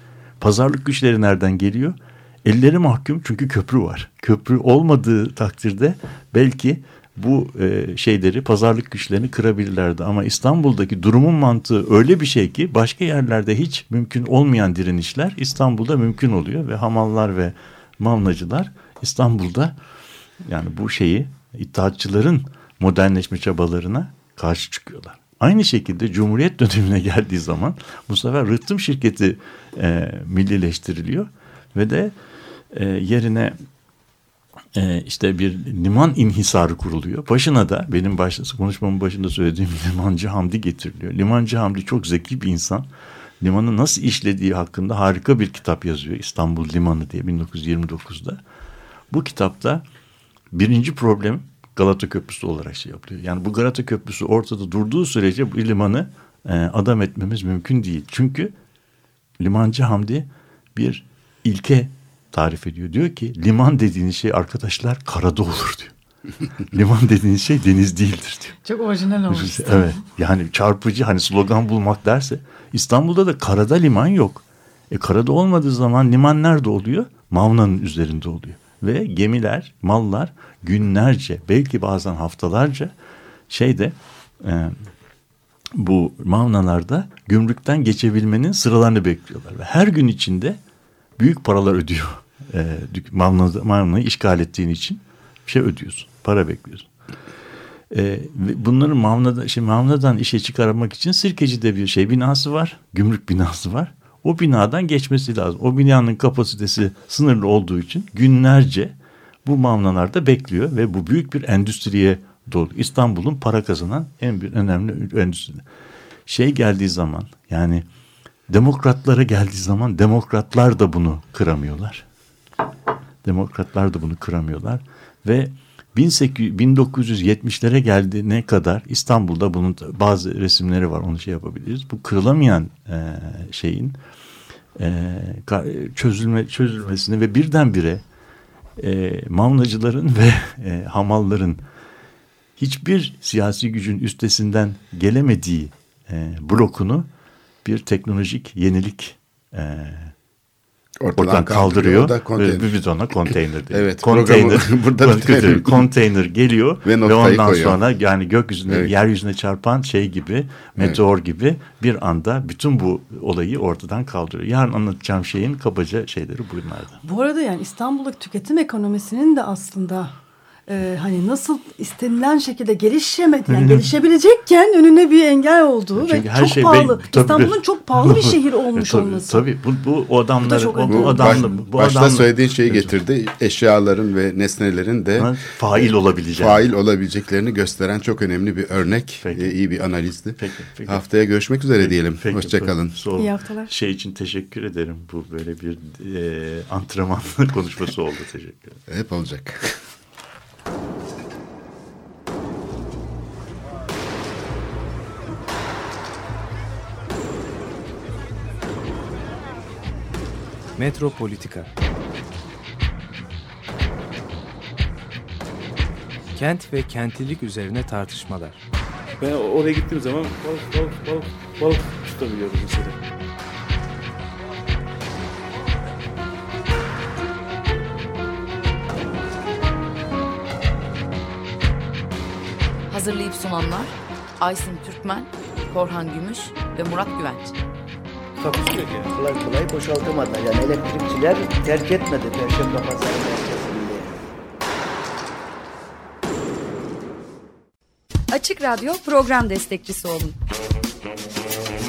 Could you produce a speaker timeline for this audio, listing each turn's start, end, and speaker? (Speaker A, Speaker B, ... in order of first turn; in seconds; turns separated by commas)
Speaker A: 0.4-19.8, Speaker A: 20.4-32.1, Speaker A: 32.7-33.5, Speaker A: 34.7-42.9, Speaker A: 43.4-48.4, Speaker A: 49.1-49.8, Speaker A: 50.5-58.5, Speaker A: 59.4-65.9, Speaker A: 66.7-68.6, Speaker B: 68.6-70.0, Speaker A: 69.3-82.9, Speaker A: 83.5-84.7, Speaker A: 85.7-90.6, Speaker A: 91.2-96.9, Speaker A: 97.9-115.6, Speaker A: 116.3-117.8, Speaker A: 118.5-122.0, Speaker A: 123.2-134.0, Speaker A: 134.8-138.0, Speaker A: 138.8-141.6, Speaker A: 142.6-147.1, Speaker A: 147.6-150.1, Speaker C: 151.0-152.7, Speaker A: 151.2-167.0, Speaker C: 153.2-155.9, Speaker C: 156.8-157.8, Speaker B: 167.0-179.4, Speaker A: 173.5-173.9, Speaker A: 176.0-182.9, Speaker B: 180.4-181.5, Speaker C: 180.9-192.9, Speaker A: 185.2-186.7, Speaker A: 189.2-189.5, Speaker A: 190.4-191.0, Speaker A: 191.8-198.8, Speaker B: 193.2-193.7, Speaker C: 198.9-199.8, Speaker D: 210.8-211.7, Speaker D: 216.3-218.6, Speaker E: 219.2-223.0, Speaker F: 232.9-237.5, Speaker G: 238.4-244.3, Speaker H: 248.3-250.3